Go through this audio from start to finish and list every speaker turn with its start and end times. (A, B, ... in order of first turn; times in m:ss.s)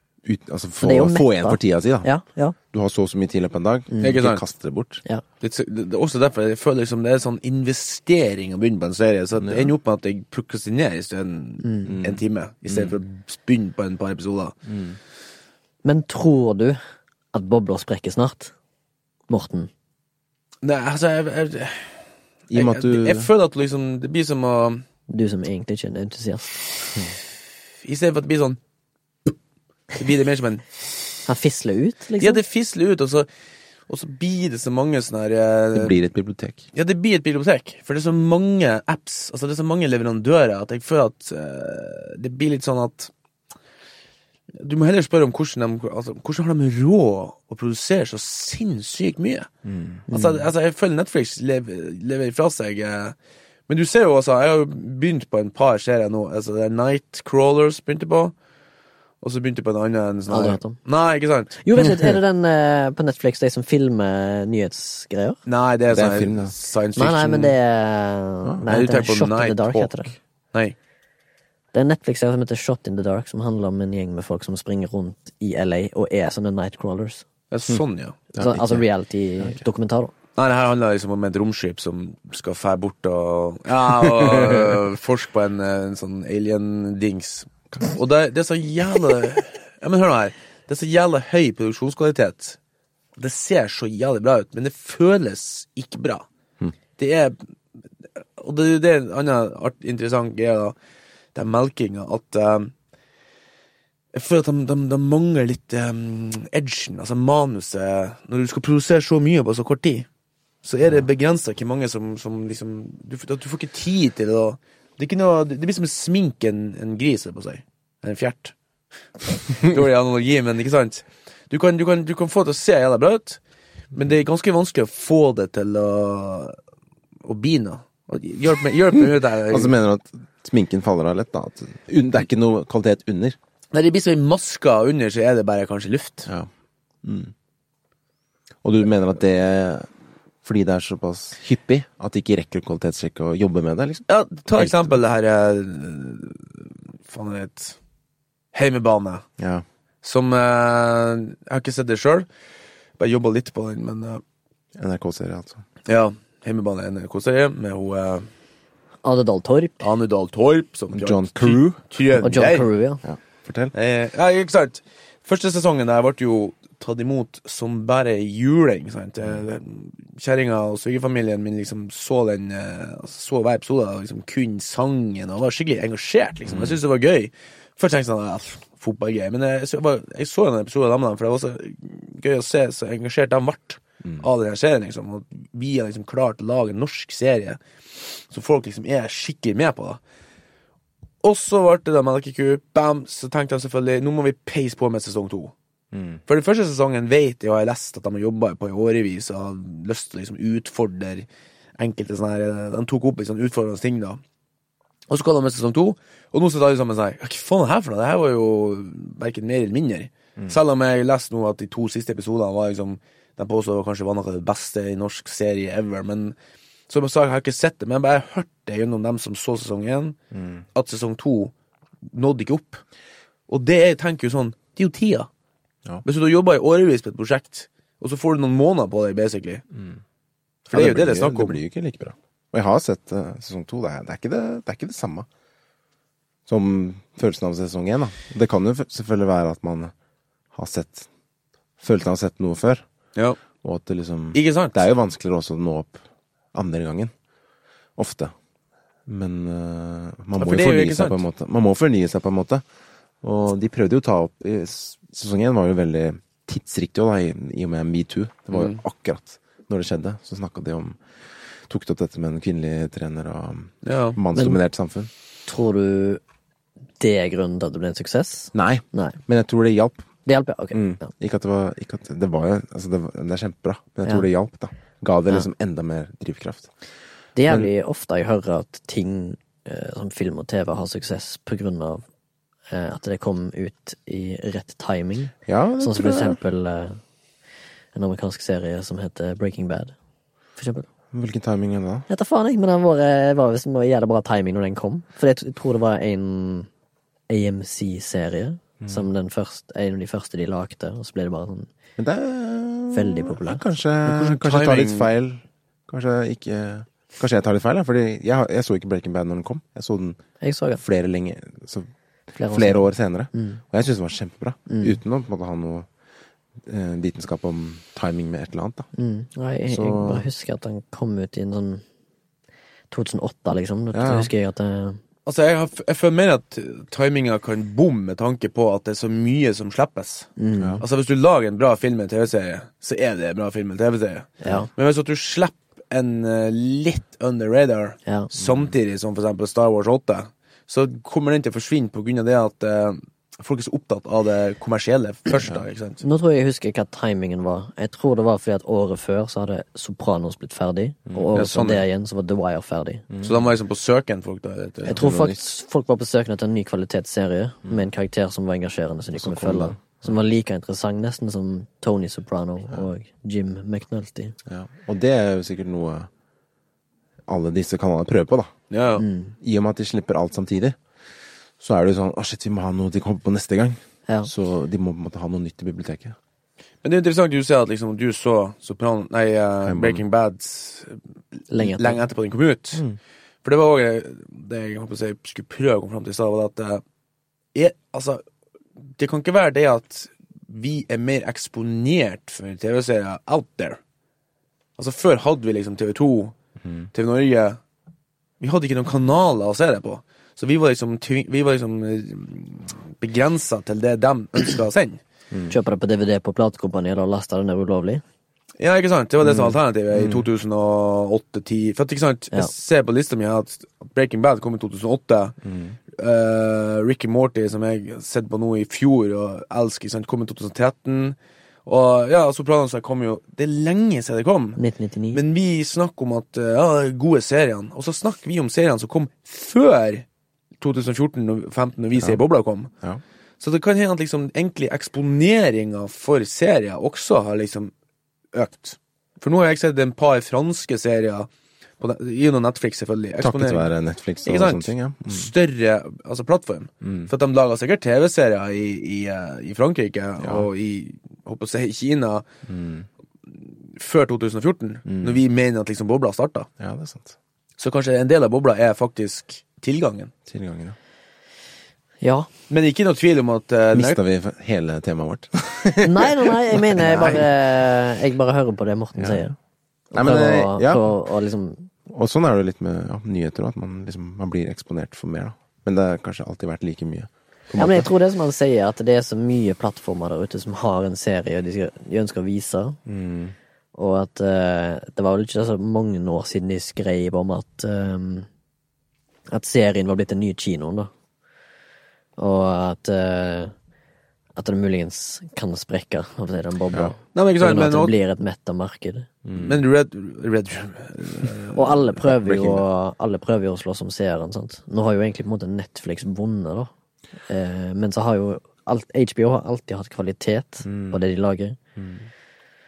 0:00.2-0:02.1 A
0:00.8-0:02.6 B
0:02.7-0:05.0 A
0:03.9-0:04.2 B
0:04.0-0:04.4 C
0:05.4-0:14.6 C
0:09.4-0:09.7 A
0:11.6-0:11.9 B
0:11.9-0:13.0 A
0:14.6-0:15.0 A
0:15.8-0:16.8 B
0:17.3-0:18.5 B
0:19.3-0:19.7 B
0:20.6-0:22.0 C
0:22.5-0:24.8 C
0:22.5-0:23.3 A
0:25.1-0:26.6 B
0:27.8-0:28.6 C
0:29.9-0:30.6 C
0:31.3-0:32.4 B
0:32.2-0:33.3 C
0:33.9-0:36.0 C
0:35.7-0:36.6 A
0:36.7-0:43.1 C
0:44.6-0:49.5 C
0:49.6-0:50.0 A
0:50.1-0:50.4 B
0:50.1-0:53.2 C
0:53.7-0:58.3 C
0:59.2-1:01.6 C
1:00.3-1:00.8 B
1:01.6-1:05.4 B
1:05.4-1:07.6 C
1:05.9-1:06.5 A
1:07.0-1:10.1 B
1:08.7-1:10.8 C
1:11.7-1:17.2 B
1:17.5-1:18.2 C
1:18.3-1:18.8 A
1:18.4-1:20.1 B
1:20.4-1:32.6 C
1:33.2-1:36.2 C
1:37.0-1:37.4 C
1:38.4-1:40.8 C
1:41.3-1:42.7 C
1:44.1-1:50.1 C
1:50.6-1:58.5 C
1:59.3-2:03.4 C
2:03.9-2:06.6 C
2:07.2-2:09.7 C
2:09.5-2:13.4 A
2:13.7-2:16.3 C
2:17.0-2:17.3 A
2:18.6-2:19.9 A
2:20.4-2:25.0 A
2:24.1-2:27.8 C
2:28.5-2:29.2 C
2:29.4-2:29.6 A
2:30.0-2:32.3 C
2:33.0-2:34.2 C
2:34.8-2:35.6 A
2:35.9-2:38.3 C
2:39.0-2:39.8 B
2:39.8-2:42.7 C
2:40.9-2:41.8 A
2:42.2-2:43.0 B
2:43.0-2:43.7 A
2:43.7-3:10.0 C
2:56.5-2:56.8 A
3:11.2-3:15.5 C
3:15.9-3:16.2 A
3:16.3-3:24.2 C
3:25.1-3:36.4 C
3:36.9-3:40.2 C
3:40.3-3:40.6 A
3:40.7-3:41.5 C
3:42.1-3:42.8 C
3:43.5-3:45.3 C
3:46.0-3:49.6 C
3:50.7-3:55.3 A
3:50.7-3:51.6 C
3:56.5-3:59.9 A
4:00.5-4:01.1 A
4:01.8-4:02.8 A
4:03.6-4:06.0 A
4:04.3-4:04.8 C
4:06.5-4:07.1 A
4:08.0-4:08.3 A
4:09.0-4:12.6 A
4:10.4-4:11.2 C
4:13.2-4:21.0 A
4:18.5-4:18.8 C
4:21.6-4:25.1 A
4:23.8-4:24.2 C
4:25.5-4:26.2 B
4:27.0-4:29.2 B
4:28.5-4:30.1 A
4:30.2-4:31.1 B
4:30.7-4:36.7 A
4:37.4-4:42.0 B
4:42.7-4:47.0 B
4:45.5-4:46.4 A
4:47.9-4:49.9 B
4:50.6-4:50.9 B
4:51.1-4:52.0 A
4:52.1-4:56.7 B
4:57.3-5:01.7 B
4:58.8-4:59.0 A
5:02.0-5:10.2 A
5:02.9-5:03.6 B
5:04.0-5:05.1 C
5:10.4-5:10.8 B
5:10.8-5:11.9 A
5:12.4-5:13.6 B
5:12.5-5:15.9 A
5:14.7-5:15.0 B
5:16.6-5:18.9 A
5:18.9-5:21.8 B
5:19.7-5:20.3 A
5:22.9-5:25.0 B
5:23.9-5:24.3 A
5:25.2-5:46.0 C
5:30.4-5:30.8 B
5:34.4-5:34.7 B
5:38.4-5:38.6 A
5:46.0-5:53.0 B
5:51.3-5:51.8 C
5:53.2-5:55.0 C
5:54.8-5:55.5 A
5:54.9-6:04.4 B
5:59.1-6:00.1 A
6:04.5-6:06.1 A
6:07.3-6:08.5 A
6:08.7-6:09.0 C
6:09.0-6:09.3 B
6:09.4-6:10.8 A
6:11.6-6:16.2 A
6:16.8-6:21.0 C
6:19.6-6:20.0 A
6:21.5-6:22.0 B
6:21.6-6:22.8 C
6:23.4-6:26.8 C
6:27.5-6:28.2 C
6:29.0-6:33.8 C
6:34.8-6:36.3 C
6:36.9-6:37.6 C
6:38.4-6:45.0 C
6:45.5-6:48.0 B
6:48.6-6:55.4 C
6:49.2-6:50.3 A
6:55.4-6:55.8 A
6:55.9-7:04.6 C
7:04.6-7:05.2 B
7:05.1-7:10.0 C
7:10.6-7:12.7 C
7:13.4-7:17.7 C
7:18.3-7:21.3 C
7:21.8-7:23.7 C
7:23.2-7:25.3 A
7:24.2-7:32.2 C
7:26.8-7:27.1 A
7:30.2-7:30.5 A
7:32.4-7:32.9 A
7:33.7-7:36.5 C
7:34.9-7:35.2 A
7:36.6-7:37.2 A
7:37.6-7:40.1 C
7:40.3-7:40.8 A
7:42.0-7:42.3 B
7:42.5-7:44.0 C
7:43.7-7:47.2 A
7:45.8-7:49.3 B
7:49.0-7:49.3 A
7:49.9-7:51.7 B
7:49.9-7:50.9 A
7:51.9-7:57.9 A
7:57.6-8:02.8 B
8:02.8-8:03.3 A
8:03.7-8:08.3 B
8:09.3-8:10.9 B
8:12.2-8:13.5 B
8:14.4-8:19.1 B
8:17.1-8:17.9 C
8:19.2-8:19.6 A
8:19.3-8:21.7 C
8:21.5-8:26.7 B
8:22.0-8:22.6 A
8:27.3-8:31.6 B
8:30.6-8:31.0 A
8:31.8-8:32.1 A